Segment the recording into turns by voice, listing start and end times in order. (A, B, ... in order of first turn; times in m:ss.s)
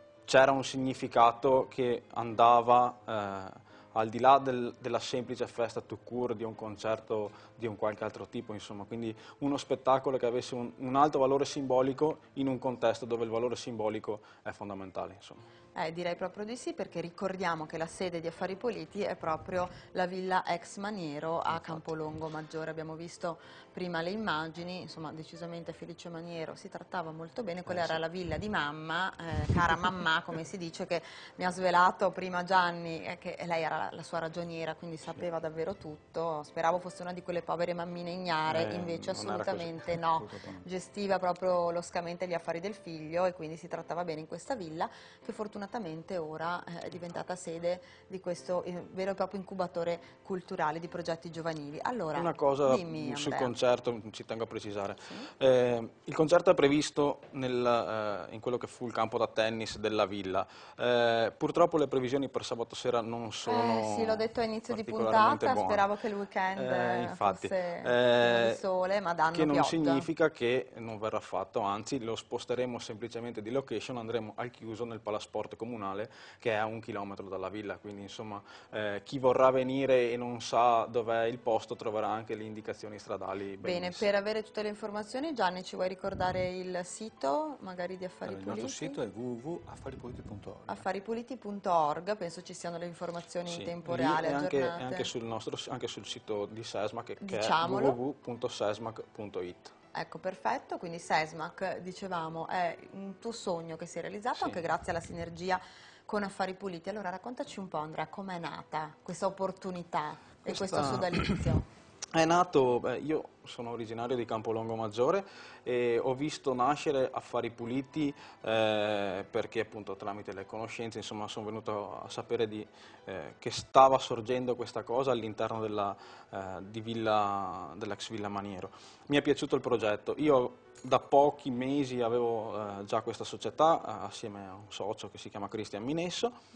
0:00.2-0:15.4 A
0:15.7-0:53.5 B
0:21.5-0:21.9 A
0:27.6-0:28.0 A
0:38.5-0:40.0 A
0:40.2-0:40.6 C
0:52.1-1:05.9 A
0:55.0-0:55.3 B
1:03.4-1:10.1 B
1:06.5-1:08.6 A
1:09.3-1:24.1 A
1:23.6-1:29.0 B
1:28.2-1:30.8 C
1:30.7-1:35.1 B
1:33.5-1:39.7 A
1:37.2-1:38.0 B
1:39.9-1:51.7 B
1:44.3-1:44.7 A
1:50.4-1:51.5 A
1:52.1-2:16.4 A